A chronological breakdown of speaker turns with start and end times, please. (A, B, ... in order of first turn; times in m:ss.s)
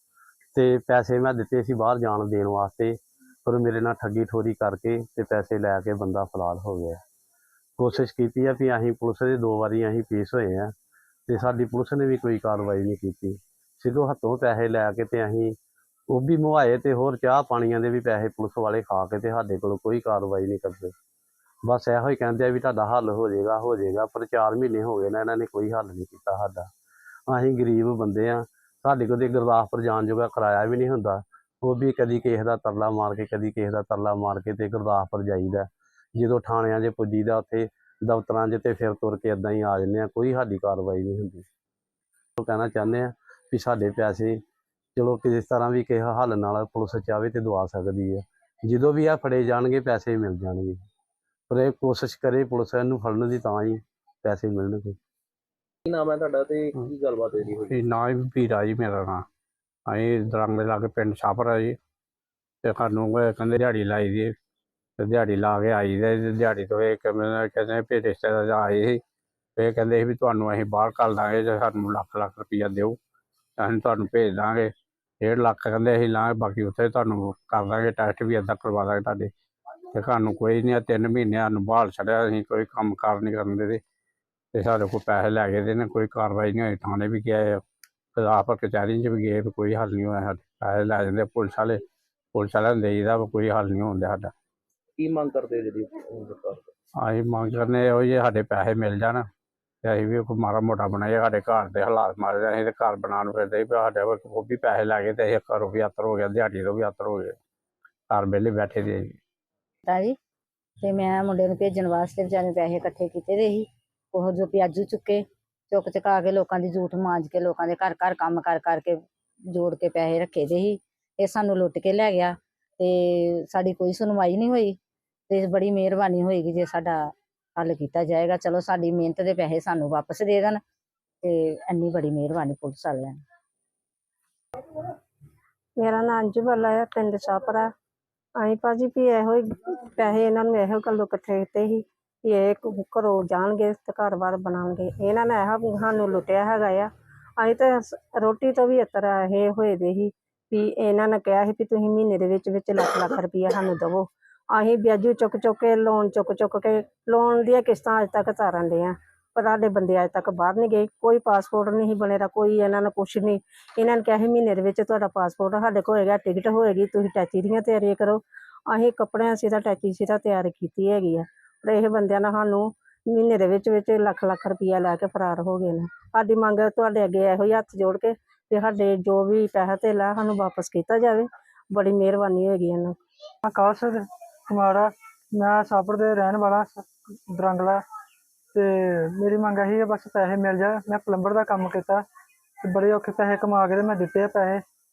0:00.6-0:07.0 A
0:07.8-0:10.7 A
0:11.3-0:15.6 A
0:16.1-0:20.9 A
0:21.6-0:26.7 A
0:27.3-0:41.4 A
0:42.4-0:44.4 A
0:45.0-0:50.8 A
0:51.5-0:55.0 A
0:55.9-0:57.7 B
0:57.7-0:59.2 C
0:59.9-1:01.8 C
1:02.6-1:04.3 C
1:05.0-1:09.0 C
1:09.6-1:13.0 C
1:13.6-1:19.3 C
1:19.9-1:23.8 C
1:24.5-1:27.6 C
1:28.2-1:31.8 C
1:32.3-1:34.3 C
1:35.0-1:36.6 B
1:37.0-1:39.2 C
1:39.8-1:47.4 C
1:48.1-1:49.2 C
1:49.9-1:50.2 D
1:50.8-2:04.8 D
2:05.3-2:10.6 D
2:11.2-2:13.2 D
2:15.8-2:17.7 E
2:18.4-3:03.0 E
3:03.4-3:07.8 F
3:08.5-3:12.0 F
3:12.6-3:14.6 F